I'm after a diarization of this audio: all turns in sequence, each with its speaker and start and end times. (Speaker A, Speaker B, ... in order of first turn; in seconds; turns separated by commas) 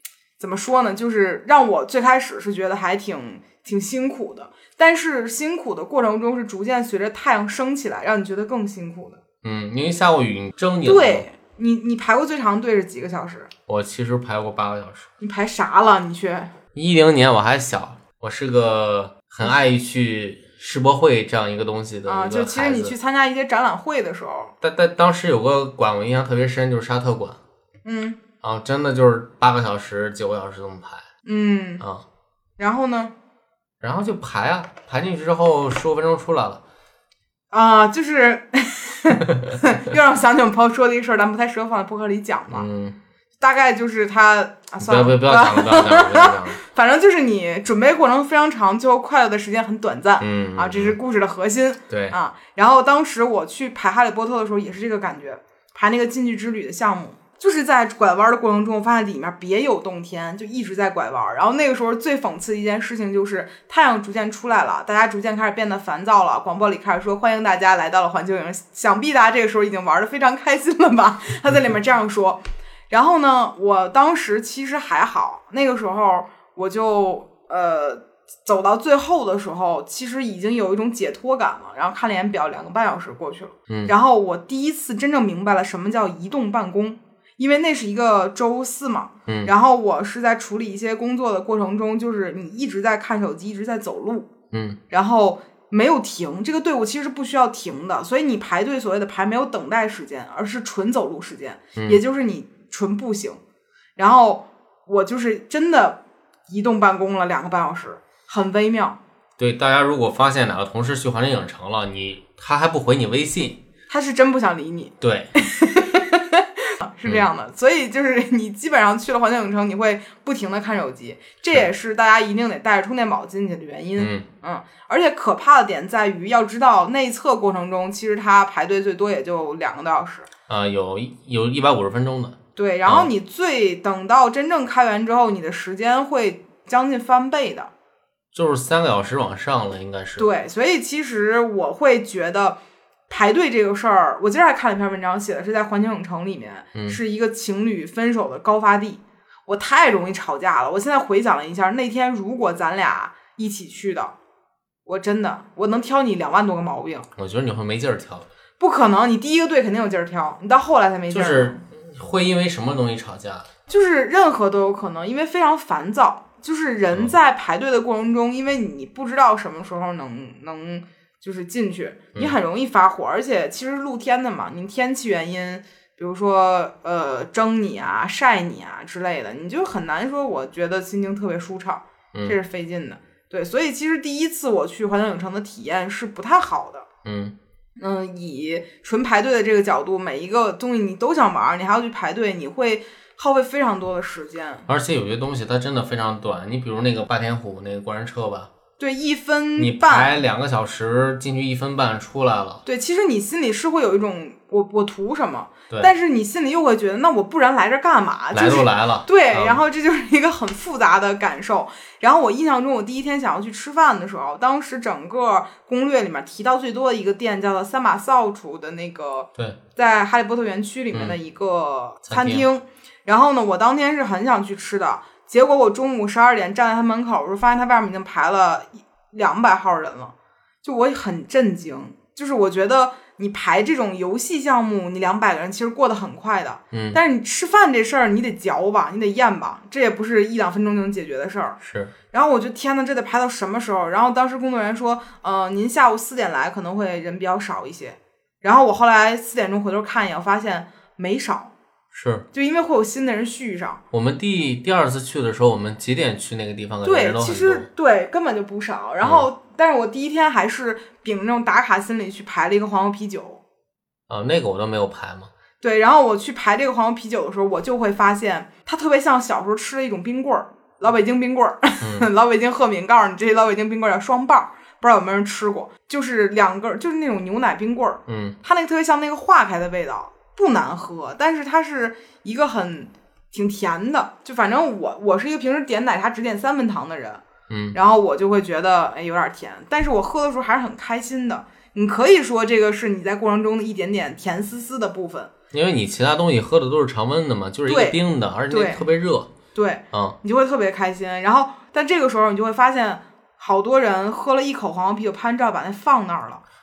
Speaker A: 0.4-9.2, Speaker B: 9.4-11.2, Speaker A: 10.8-13.5, Speaker B: 13.7-15.1, Speaker A: 15.2-16.5, Speaker B: 16.7-22.9, Speaker A: 22.1-24.5, Speaker B: 24.6-27.4, Speaker A: 27.8-28.2, Speaker B: 28.4-31.0, Speaker A: 31.2-31.8, Speaker A: 32.6-33.1, Speaker B: 33.8-36.6, Speaker A: 37.5-42.6, Speaker B: 42.5-43.0, Speaker A: 43.4-94.3, Speaker B: 44.8-46.6, Speaker B: 50.2-51.0, Speaker B: 51.9-52.2, Speaker B: 94.5-94.8, Speaker A: 94.9-103.4, Speaker B: 101.8-102.0, Speaker A: 104.0-109.0, Speaker B: 109.4-113.6, Speaker A: 113.9-130.3, Speaker B: 115.0-115.3, Speaker B: 124.0-124.2, Speaker B: 130.5-133.1, Speaker A: 132.6-137.7, Speaker B: 138.3-140.3, Speaker A: 140.2-142.6, Speaker A: 143.1-154.1, Speaker B: 146.7-147.0, Speaker A: 154.8-157.1, Speaker B: 157.2-158.3, Speaker A: 158.6-161.6, Speaker B: 161.1-163.5, Speaker A: 163.7-186.9, Speaker B: 187.0-187.3, Speaker A: 187.8-194.7, Speaker B: 194.7-198.5, Speaker A: 198.8-200.1, Speaker B: 199.6-202.6, Speaker A: 202.6-241.6, Speaker B: 208.3-209.6, Speaker B: 222.1-222.4, Speaker B: 236.7-237.0, Speaker B: 241.6-241.9, Speaker A: 242.1-251.5, Speaker B: 251.9-252.2, Speaker A: 252.3-253.8, Speaker B: 253.9-257.7, Speaker A: 256.8-263.4, Speaker B: 259.0-259.3, Speaker B: 264.1-265.3, Speaker A: 265.6-287.2, Speaker B: 271.8-272.1, Speaker B: 278.1-278.4, Speaker B: 287.5-287.8, Speaker A: 287.7-295.3, Speaker B: 295.5-299.3, Speaker A: 297.7-298.0, Speaker A: 298.5-298.8, Speaker A: 299.5-306.4, Speaker B: 299.9-300.2